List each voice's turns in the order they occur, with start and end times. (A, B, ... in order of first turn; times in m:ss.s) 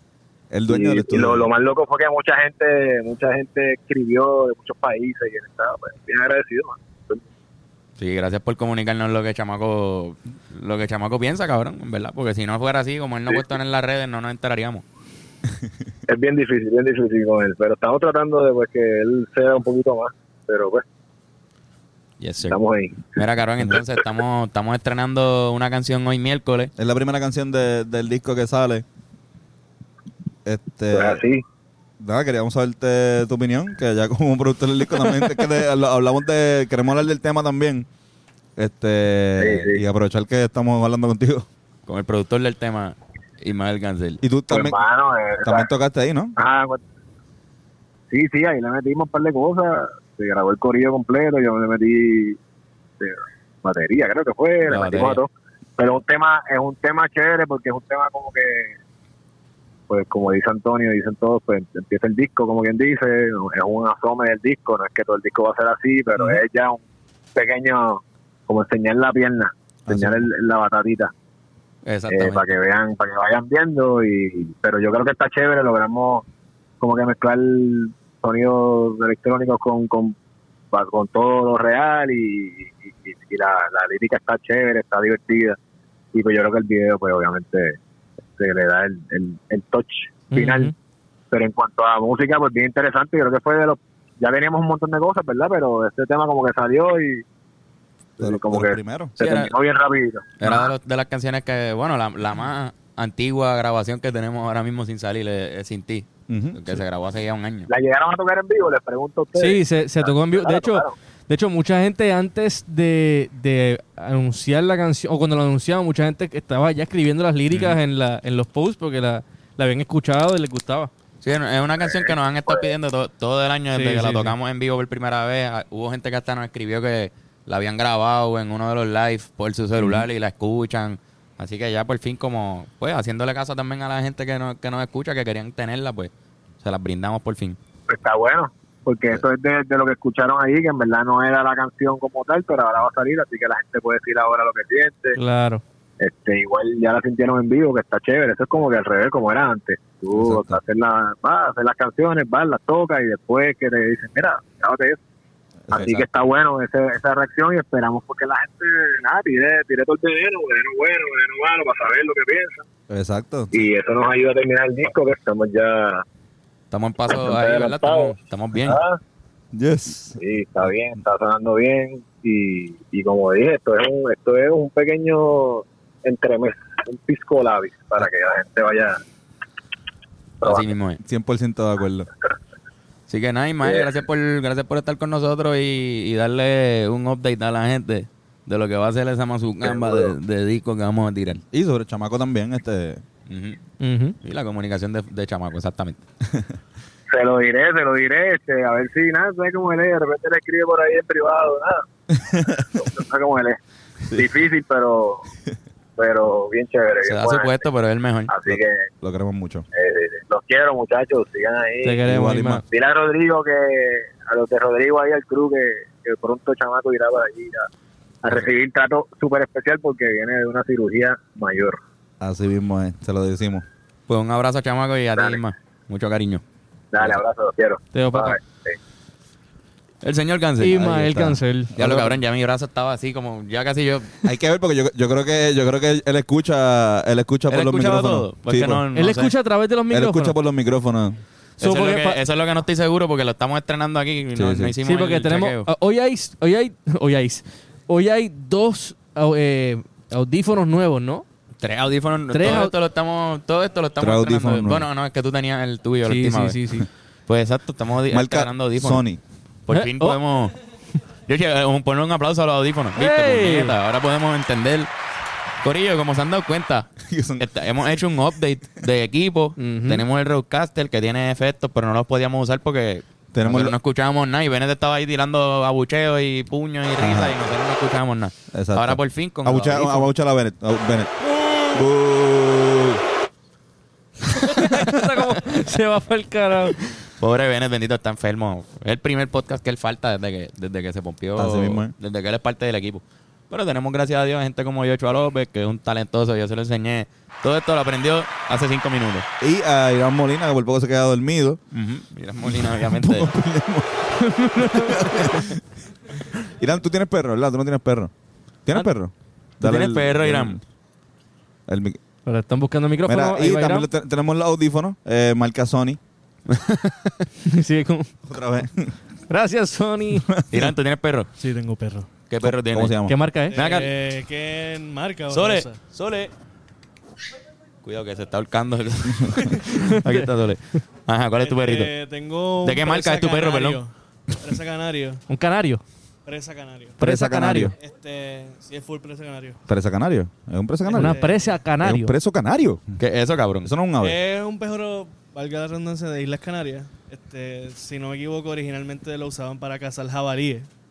0:00.5-0:01.5 A
0:00.7-0:07.2 B
0:08.0-0:14.8 C
0:16.1-0:20.8 B
0:22.2-0:26.7 C
0:22.4-0:23.1 B
0:26.8-0:28.8 A
0:30.5-0:31.2 A
0:30.9-0:31.4 B
0:32.0-0:37.9 A
0:38.6-0:41.5 A
0:39.4-0:39.8 B
0:41.9-0:44.2 C
0:44.2-0:44.8 A
0:44.5-0:45.7 B
0:45.4-0:46.3 A
0:46.4-0:46.8 B
0:48.1-0:52.4 B
0:53.0-0:58.7 B
0:54.7-0:55.2 C
0:59.9-1:06.8 B
1:07.4-1:11.1 B
1:09.9-1:10.3 A
1:11.9-1:12.5 C
1:12.1-1:16.2 B
1:16.8-1:20.2 B
1:20.7-1:25.6 B
1:26.1-1:27.8 B
1:28.4-1:30.7 B
1:30.3-1:30.7 D
1:31.3-1:37.2 B
1:38.2-1:40.7 B
1:38.2-1:39.2 A
1:39.2-1:39.5 C
1:40.4-1:47.7 C
1:46.3-1:46.8 A
1:47.7-1:50.9 B
1:49.4-2:00.9 D
1:57.5-1:57.8 C
2:01.2-2:17.6 C
2:01.8-2:02.7 B
2:03.7-2:04.4 D
2:09.8-2:10.1 A
2:17.9-2:25.2 B
2:25.2-2:25.6 D
2:26.0-2:35.0 B
2:30.1-2:30.6 A
2:35.7-2:36.1 A
2:35.7-2:42.6 B
2:42.9-2:43.5 A
2:43.5-2:46.0 B
2:46.7-2:48.8 C
2:47.1-2:49.0 B
2:49.5-2:50.7 A
2:50.2-2:59.0 B
3:00.4-3:00.7 B
3:00.4-3:01.0 C
3:01.0-3:02.1 A
3:03.1-3:11.4 C
3:03.6-3:03.9 B
3:09.6-3:10.1 B
3:11.5-3:13.0 A
3:13.3-3:13.6 C
3:13.8-3:14.2 D
3:14.2-3:16.0 C
3:17.1-3:21.8 B
3:22.3-3:22.7 A
3:22.4-3:23.6 B
3:24.1-3:25.2 B
3:26.0-3:27.6 B
3:27.0-3:28.3 C
3:28.3-3:28.9 B
3:28.5-3:29.6 A
3:29.7-3:32.0 B
3:31.8-3:32.6 D
3:32.0-3:32.6 A
3:32.7-3:37.7 B
3:38.2-3:41.8 B
3:42.2-3:43.7 A
3:44.1-3:46.4 C
3:45.2-3:45.4 B
3:46.9-3:48.8 B
3:47.9-3:48.4 D
3:50.0-3:50.8 C
3:50.6-3:51.8 D
3:50.7-3:52.1 A
3:51.8-3:54.2 C
3:54.2-3:58.8 A
3:57.5-3:59.3 C
3:58.9-4:00.4 D
3:59.9-4:01.2 A
4:01.6-4:02.2 D
4:01.6-4:05.7 C
4:04.4-4:04.7 A
4:04.8-4:11.2 D
4:11.6-4:16.6 C
4:12.3-4:12.8 D
4:14.0-4:14.9 A
4:16.0-4:16.9 D
4:17.3-4:19.0 C
4:18.1-4:19.2 A
4:19.7-4:20.6 C
4:19.7-4:20.2 D
4:21.3-4:24.9 C
4:23.0-4:23.8 D
4:25.6-4:40.1 C
4:27.0-4:28.0 A
4:29.6-4:30.0 D
4:33.3-4:33.8 A
4:37.0-4:37.4 A
4:38.5-4:43.0 A
4:44.3-4:46.8 D
4:47.2-4:59.3 C
4:51.4-4:51.9 A
4:59.4-5:01.6 A
5:01.7-5:03.3 C
5:02.4-5:05.6 A
5:04.2-5:05.4 D
5:06.3-5:08.1 A
5:08.7-5:10.6 A
5:09.6-5:10.6 C
5:11.7-5:12.0 A
5:12.3-5:13.9 D
5:13.0-5:16.0 A
5:16.5-5:17.2 C
5:17.5-5:18.1 D
5:18.3-5:19.0 A
5:19.3-5:20.3 D
5:20.4-5:20.7 A
5:20.5-5:21.3 C
5:21.4-5:22.1 E
5:22.3-5:23.0 C
5:22.4-5:23.2 A
5:23.1-5:23.6 D
5:23.5-5:25.8 E
5:23.5-5:23.9 C
5:25.3-5:26.3 C
5:27.8-5:31.9 C
5:29.6-5:30.3 D
5:31.4-5:35.2 E
5:32.6-5:33.8 C
5:35.3-5:35.8 D
5:36.3-5:37.0 E
5:37.0-5:37.7 D
5:37.0-5:37.7 A
5:37.7-5:39.6 E
5:39.7-5:42.9 A
5:40.9-5:41.6 E
5:40.9-5:42.1 D
5:43.0-5:43.7 C
5:43.6-5:44.2 A
5:44.0-5:50.7 E